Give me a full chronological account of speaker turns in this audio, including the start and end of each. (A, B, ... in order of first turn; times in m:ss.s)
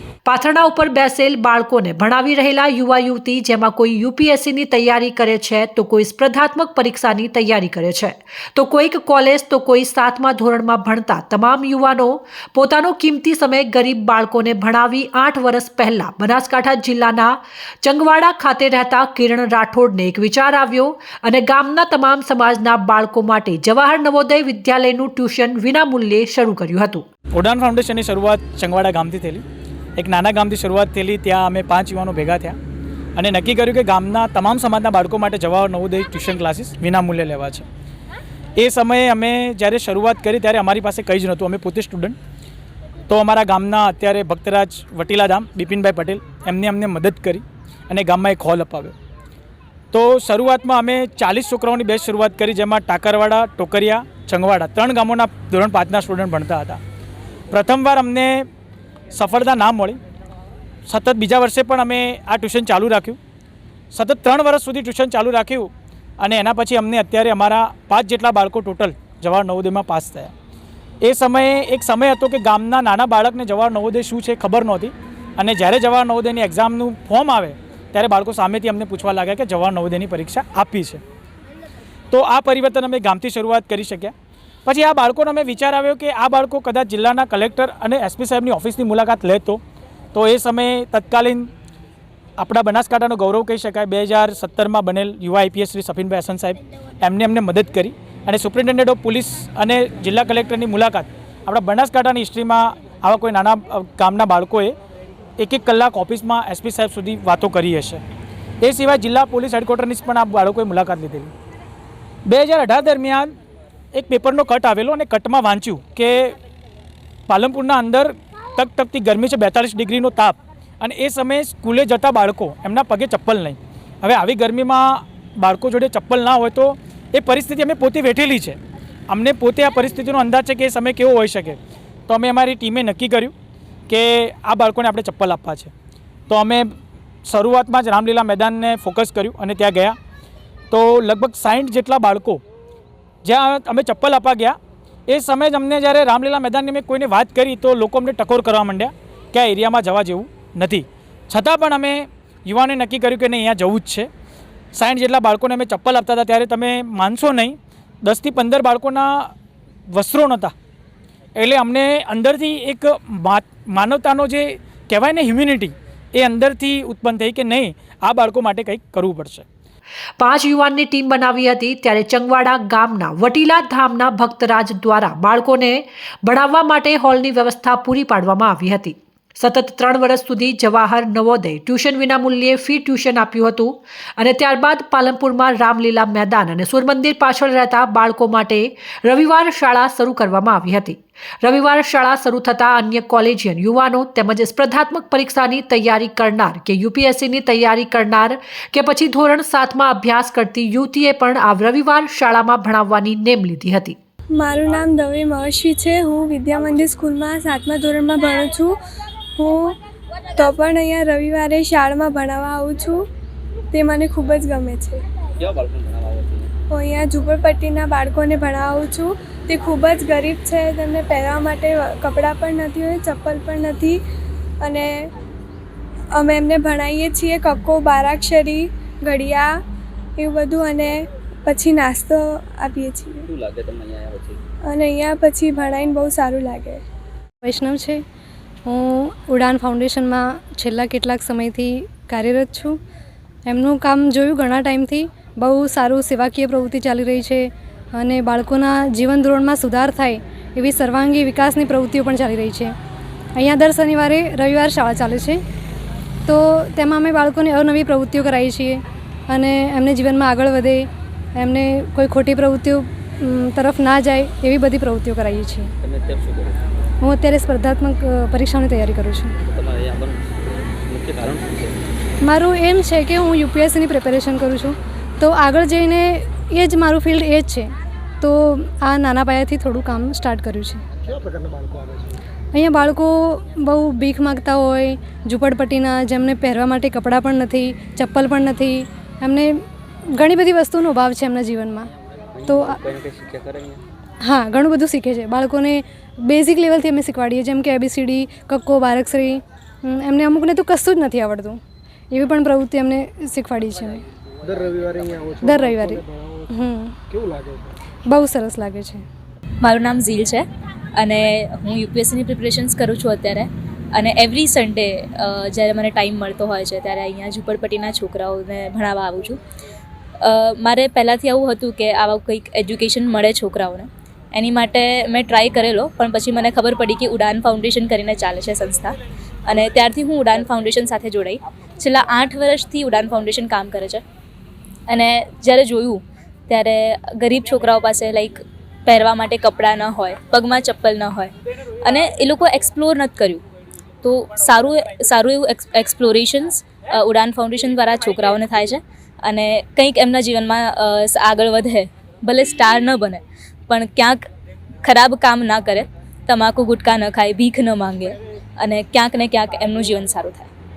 0:00.3-0:27.0 A
0:27.3-0:29.4 B
0:30.0-0:32.6 B
0:33.2-0:37.7 B
0:38.6-0:42.2 B
0:43.1-0:48.9 B
0:49.9-0:56.8 B
0:57.5-0:58.4 B
0:59.1-1:00.0 B
1:00.9-1:03.2 B
1:03.9-1:10.3 B
1:11.0-1:21.0 B
1:22.1-1:24.1 B
1:24.7-1:29.6 B
1:30.1-1:31.5 B
1:32.4-1:44.7 B
1:45.4-1:48.0 B
1:48.6-1:51.3 B
1:52.3-1:53.3 B
1:53.9-1:56.3 B
1:57.3-2:13.3 B
2:13.9-2:15.7 B
2:16.3-2:16.7 B
2:17.3-2:20.0 B
2:20.7-2:22.4 B
2:23.2-2:24.6 B
2:25.1-2:34.1 B
2:34.8-2:39.3 B
2:39.9-2:40.5 B
2:41.4-2:49.5 B
2:50.2-3:24.0 A
3:24.4-3:28.8 C
3:29.4-3:29.8 C
3:30.4-3:33.1 C
3:33.7-3:35.0 C
3:35.4-3:36.5 D
3:36.7-3:44.0 C
3:44.6-3:44.9 C
3:46.2-3:49.5 C
3:50.2-3:53.2 C
3:53.3-3:54.4 D
3:54.7-3:56.8 C
3:57.4-3:58.0 E
3:58.7-4:02.8 E
4:03.5-4:12.7 E
4:13.4-4:15.4 E
4:16.3-4:25.7 E
4:25.8-4:26.6 D
4:27.0-4:29.3 E
4:29.5-4:31.8 D
4:32.3-4:37.7 E
4:38.2-4:40.8 E
4:41.3-4:41.8 C
4:42.5-4:49.6 E
4:50.1-4:51.9 E
4:52.4-4:53.8 D
4:52.5-4:52.8 E
4:54.2-5:01.6 E
5:02.1-5:04.0 E
5:04.4-5:06.4 C
5:05.4-5:07.0 E
5:07.1-5:07.7 C
5:08.1-5:09.0 E
5:09.6-5:10.4 F
5:11.0-5:19.4 F
5:20.2-5:28.9 F
5:29.5-5:34.0 F
5:34.9-5:41.3 F
5:41.8-5:43.4 F
5:44.0-5:54.2 F
5:54.8-6:00.5 F